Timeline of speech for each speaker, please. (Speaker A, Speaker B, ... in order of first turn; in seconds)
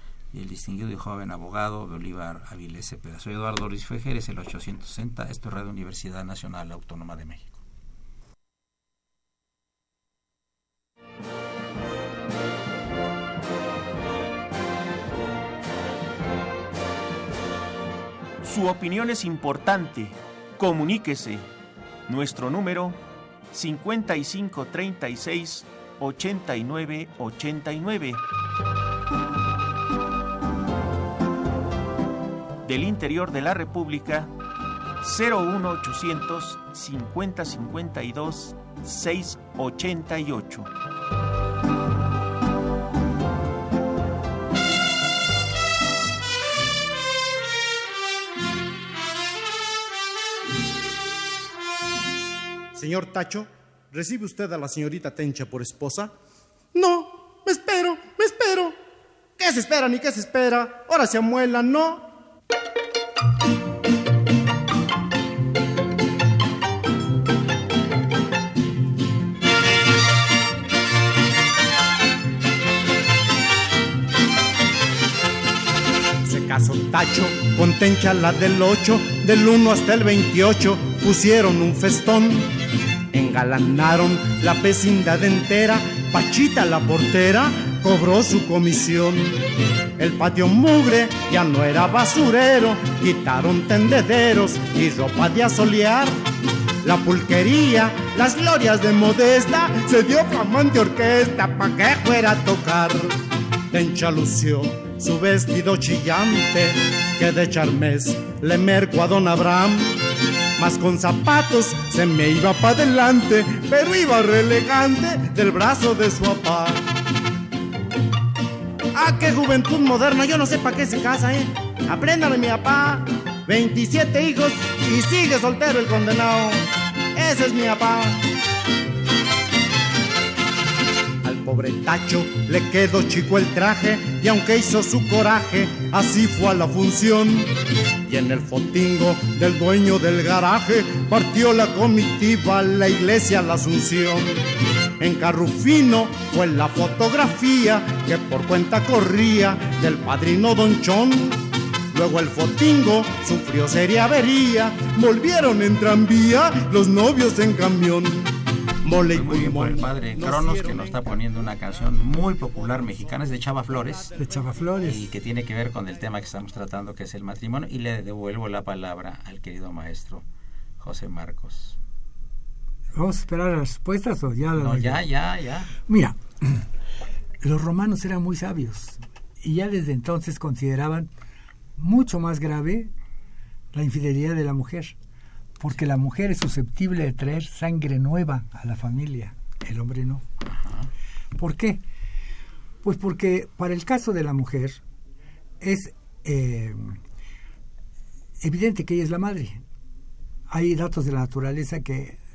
Speaker A: 0.3-7.6, 159.1-164.2, 164.8-170.2, 170.8-171.8, 174.5-175.7, 190.4-190.9
Speaker B: 18.4-21.4, 22.1-23.0, 23.5-28.2, 32.6-34.3, 35.0-40.7
Speaker C: 52.7-56.1, 56.7-58.8, 59.4-62.1, 76.2-82.5, 83.1-89.4, 90.0-96.2, 96.8-103.2, 103.7-110.0, 110.6-116.8, 118.9-128.2, 131.2-137.5, 138.1-144.3, 145.0-158.3, 158.8-161.3, 162.5-163.2, 163.8-164.3
Speaker D: 164.2-165.0, 172.9-175.1, 175.8-176.7, 177.4-181.1, 181.8-182.9, 183.7-184.9, 185.6-190.2, 191.3-191.8, 192.8-194.8, 195.6-197.0, 198.4-199.6, 200.5-202.2